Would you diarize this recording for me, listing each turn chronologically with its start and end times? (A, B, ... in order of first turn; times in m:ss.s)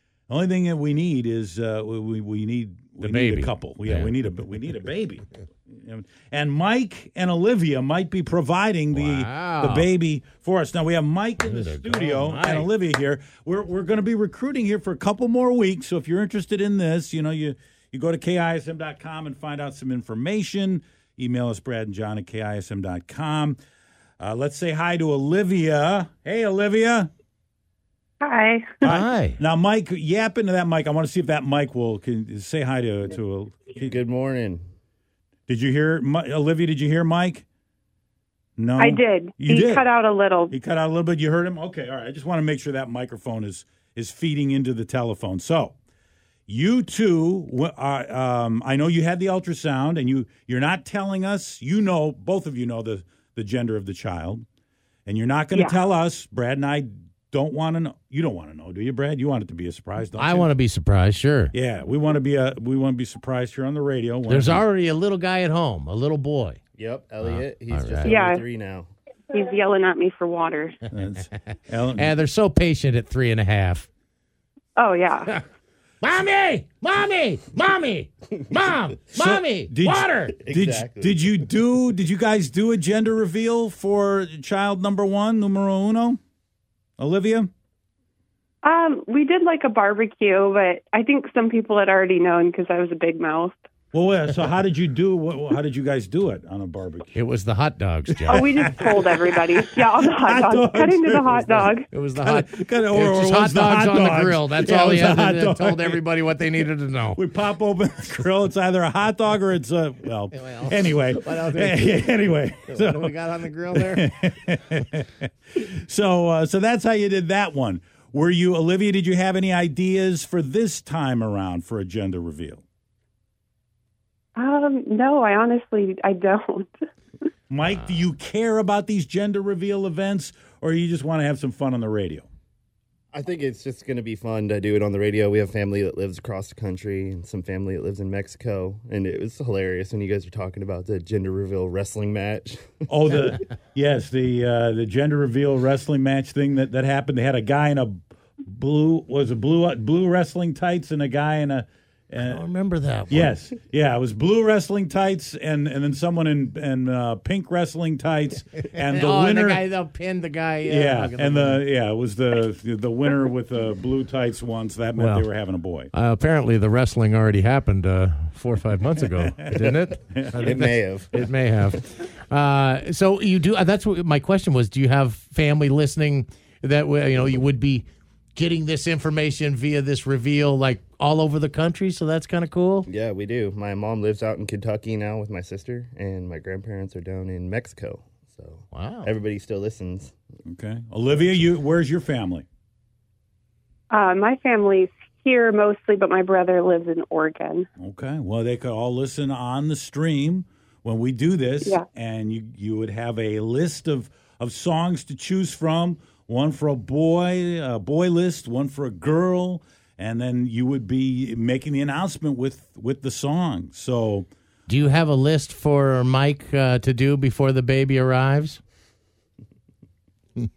0:00.3-0:23.6 A
0:03.0-0:04.1 B
0:08.9-0:09.9 B
0:11.4-0:12.7 B
0:24.2-0:27.1 A
0:28.2-0:28.8 C
0:28.8-0:34.0 A
0:28.8-0:29.4 B
0:33.8-0:34.6 D
0:35.5-0:37.4 A
0:38.6-0:39.8 A
0:38.8-0:40.5 C
0:40.5-0:45.8 A
0:46.5-0:54.4 A
0:55.0-1:00.5 A
0:55.5-0:55.8 C
1:00.1-1:01.5 B
1:01.5-1:04.6 A
1:04.3-1:06.6 B
1:06.8-1:08.9 D
1:07.2-1:08.2 B
1:08.0-1:08.4 C
1:09.3-1:10.8 C
1:10.9-1:12.1 A
1:11.9-1:13.9 B
1:14.8-1:15.3 C
1:16.0-1:20.4 B
1:19.1-1:26.2 A
1:20.4-1:21.3 D
1:27.0-1:27.5 A
1:28.6-1:33.6 C
1:33.9-1:37.2 A
1:37.1-1:38.5 B
1:38.2-1:39.0 A
1:38.3-1:41.9 C
1:40.1-1:46.0 A
1:41.9-1:47.2 B
1:47.1-1:53.2 A
1:50.3-1:52.0 B
1:52.6-1:54.1 B
1:53.7-2:02.6 A
2:04.4-2:06.8 C
2:07.5-2:12.3 A
2:13.1-2:23.3 D
2:22.9-2:32.4 A
2:32.2-2:33.3 B
2:33.1-2:39.6 A
2:38.9-2:41.6 B
2:40.6-2:45.9 A
2:44.9-2:45.3 B
2:45.9-3:02.9 B
2:49.4-2:50.5 A
2:50.4-2:51.1 D
3:02.9-3:10.1 D
3:08.7-3:09.1 B
3:10.4-3:12.4 A
3:13.9-3:17.6 C
3:17.8-3:34.3 A
3:34.7-3:38.6 B